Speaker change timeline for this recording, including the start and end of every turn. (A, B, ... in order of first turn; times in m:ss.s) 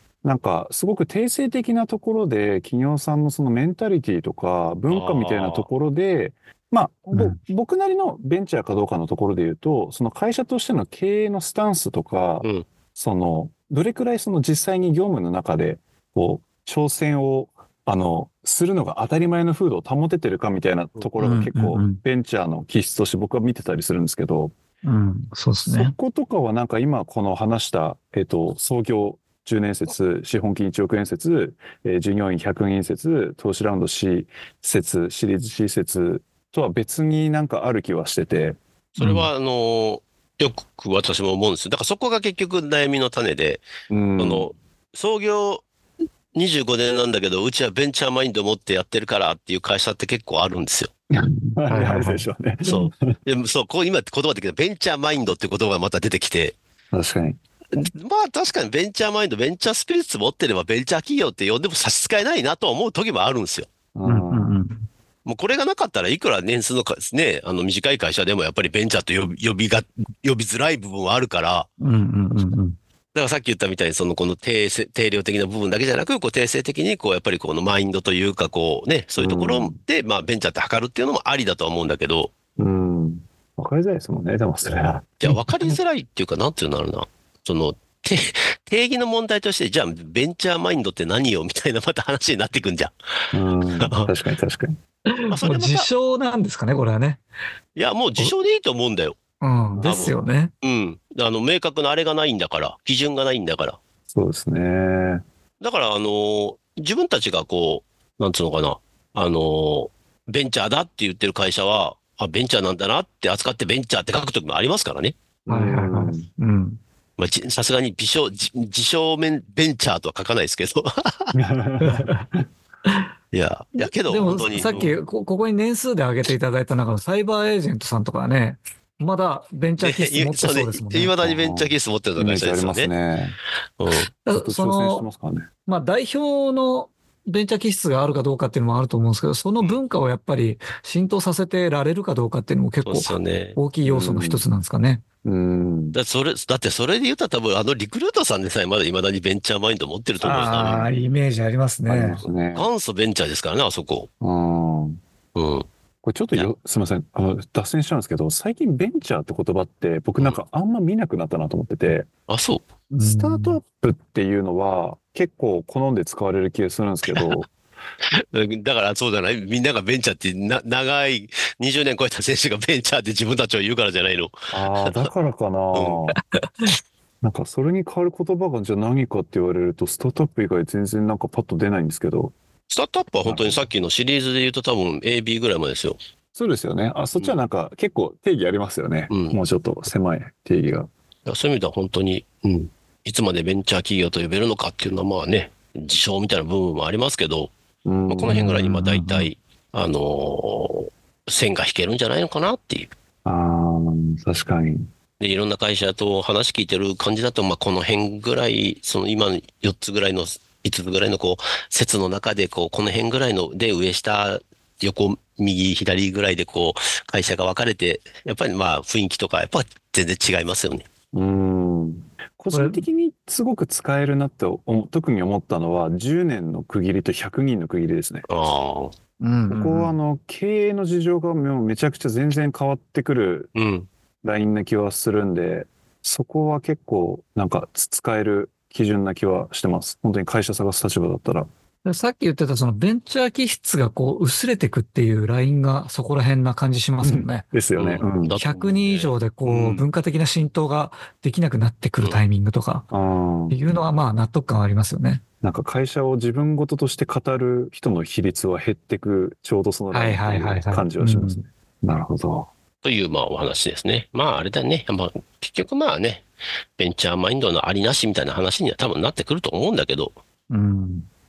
0:00.2-0:24.6 A
0:04.9-0:05.7 B
0:07.1-0:07.4 C
0:21.2-0:22.0 C
0:24.8-0:26.0 C
0:25.7-0:38.6 A
0:39.0-0:43.6 B
0:39.0-0:39.3 C
0:43.9-0:44.5 A
0:44.2-0:45.6 B
0:46.3-0:50.9 B
0:51.1-0:53.0 A
0:51.7-0:52.2 C
0:52.6-0:56.6 B
0:56.9-0:57.4 A
0:57.8-1:03.7 B
1:03.9-1:04.5 A
1:04.1-1:04.9 C
1:05.2-1:11.7 B
1:11.8-1:12.8 C
1:13.1-1:22.3 B
1:19.2-1:19.8 A
1:22.6-1:25.2 A
1:25.2-1:32.9 B
1:25.3-1:25.7 C
1:33.3-1:34.8 A
1:33.8-1:34.1 B
1:35.1-1:37.2 C
1:35.3-1:35.9 B
1:37.8-1:39.2 B
1:39.4-1:40.5 C
1:39.7-1:40.2 A
1:39.8-1:43.8 B
1:44.1-1:45.2 A
1:45.6-1:55.2 B
1:55.5-1:56.3 A
1:55.5-1:56.8 C
1:57.2-2:01.4 B
2:01.3-2:02.4 A
2:01.8-2:02.3 C
2:03.3-2:05.0 B
2:03.8-2:11.2 C
2:04.3-2:04.9 A
2:09.8-2:12.9 B
2:11.2-2:13.4 A
2:13.8-2:14.1 B
2:14.2-2:15.1 C
2:14.3-2:15.5 A
2:15.7-2:25.0 C
2:22.9-2:23.6 B
2:23.8-2:24.4 A
2:25.2-2:26.0 A
2:25.9-2:30.9 B
2:30.2-2:32.2 C
2:30.3-2:30.9 A
2:31.9-2:32.7 A
2:32.5-2:34.1 B
2:34.2-2:35.0 A
2:35.4-2:35.7 B
2:36.0-2:42.1 A
2:42.3-2:42.6 B
2:43.0-2:47.5 A
2:43.0-2:43.6 C
2:48.1-2:55.1 B
2:54.5-2:56.2 A
2:55.7-2:56.0 B
2:57.2-3:02.3 A
3:02.7-3:06.0 B
3:03.2-3:03.6 A
3:06.4-3:10.9 A
3:09.1-3:09.4 B
3:11.3-3:17.5 B
3:17.8-3:19.2 A
3:18.1-3:22.9 B
3:18.3-3:19.3 C
3:23.2-3:24.9 A
3:25.2-3:40.9 B
3:41.1-3:48.3 A
3:42.5-3:42.9 C
3:48.3-3:48.9 B
3:49.2-3:50.0 C
3:49.5-3:53.5 A
3:53.6-3:53.9 B
3:54.2-4:01.5 A
4:01.8-4:07.4 C
4:07.0-4:08.4 A
4:07.8-4:09.1 B
4:08.4-4:12.9 C
4:09.5-4:09.9 A
4:12.9-4:13.6 A
4:13.5-4:15.2 C
4:15.4-4:22.5 A
4:19.9-4:21.4 C
4:22.8-4:26.2 B
4:26.8-4:30.2 B
4:30.5-4:31.1 C